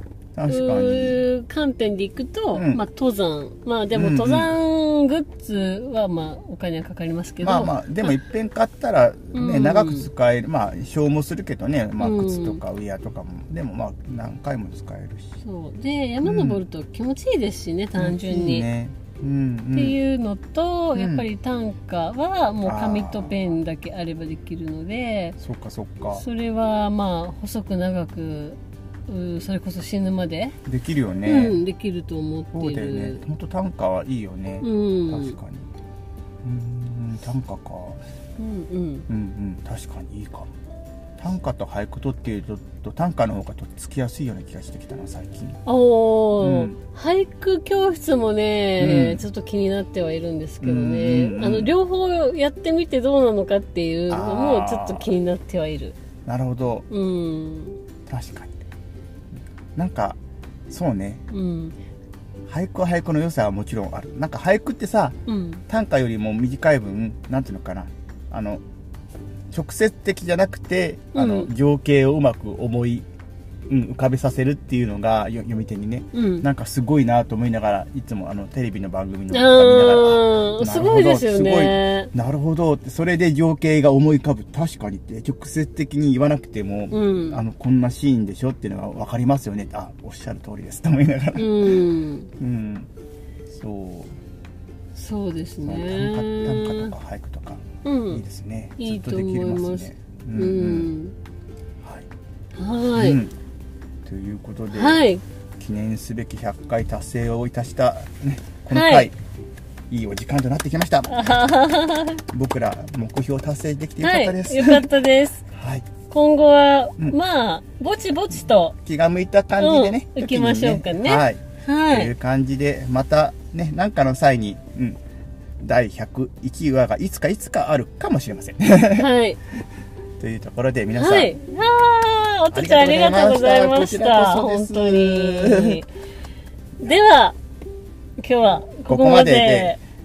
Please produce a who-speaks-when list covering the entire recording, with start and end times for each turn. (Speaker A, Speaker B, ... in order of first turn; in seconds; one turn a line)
Speaker A: 0.4-1.2
Speaker B: 0.5-8.2
Speaker A: 2.5-2.8
Speaker A: 3.9-4.5
Speaker A: 7.4-15.3
Speaker B: 9.3-10.1
Speaker B: 12.0-12.6
Speaker B: 15.4-18.7
Speaker A: 16.2-16.6
Speaker A: 18.0-20.0
Speaker B: 19.7-25.4
Speaker A: 20.9-21.3
Speaker A: 22.6-23.6
Speaker A: 25.4-26.2
Speaker B: 26.1-30.6
Speaker A: 30.7-31.6
Speaker B: 31.2-33.2
Speaker A: 32.5-35.7
Speaker B: 34.6-35.4
Speaker A: 36.4-38.0
Speaker B: 38.4-39.1
Speaker A: 39.1-40.5
Speaker A: 41.2-45.6
Speaker B: 45.7-56.0
Speaker A: 46.4-46.8
Speaker A: 48.8-49.2
Speaker A: 50.6-51.7
Speaker A: 54.1-55.1
Speaker A: 56.3-56.9
Speaker B: 56.9-57.8
Speaker A: 58.1-58.6
Speaker A: 59.8-60.2
Speaker A: 60.7-61.2
Speaker B: 61.3-61.8
Speaker A: 62.5-68.6
Speaker B: 65.3-65.6
Speaker A: 69.5-73.1
Speaker B: 71.1-71.5
Speaker A: 73.7-91.8
Speaker B: 76.1-76.5
Speaker B: 79.3-82.1
Speaker B: 86.9-87.4
Speaker B: 91.4-92.3
Speaker A: 92.4-92.9
Speaker A: 93.5-94.2
Speaker B: 95.0-96.9
Speaker A: 95.6-100.9
Speaker B: 97.8-98.2
Speaker B: 98.8-101.2
Speaker A: 101.8-102.1
Speaker B: 102.5-103.2
Speaker A: 103.0-103.3
Speaker A: 104.0-105.0
Speaker B: 104.7-105.2
Speaker A: 105.6-109.2
Speaker B: 108.7-109.1
Speaker A: 109.9-111.5
Speaker B: 111.1-112.2
Speaker A: 112.3-114.9
Speaker B: 114.0-115.5
Speaker A: 115.5-115.9
Speaker B: 116.1-118.8
Speaker A: 118.8-125.0
Speaker B: 119.6-122.1
Speaker A: 125.6-129.1
Speaker B: 129.0-129.4
Speaker A: 130.2-131.3
Speaker B: 130.9-135.9
Speaker A: 132.5-135.8
Speaker B: 136.8-137.4
Speaker B: 138.2-139.8
Speaker A: 138.9-139.8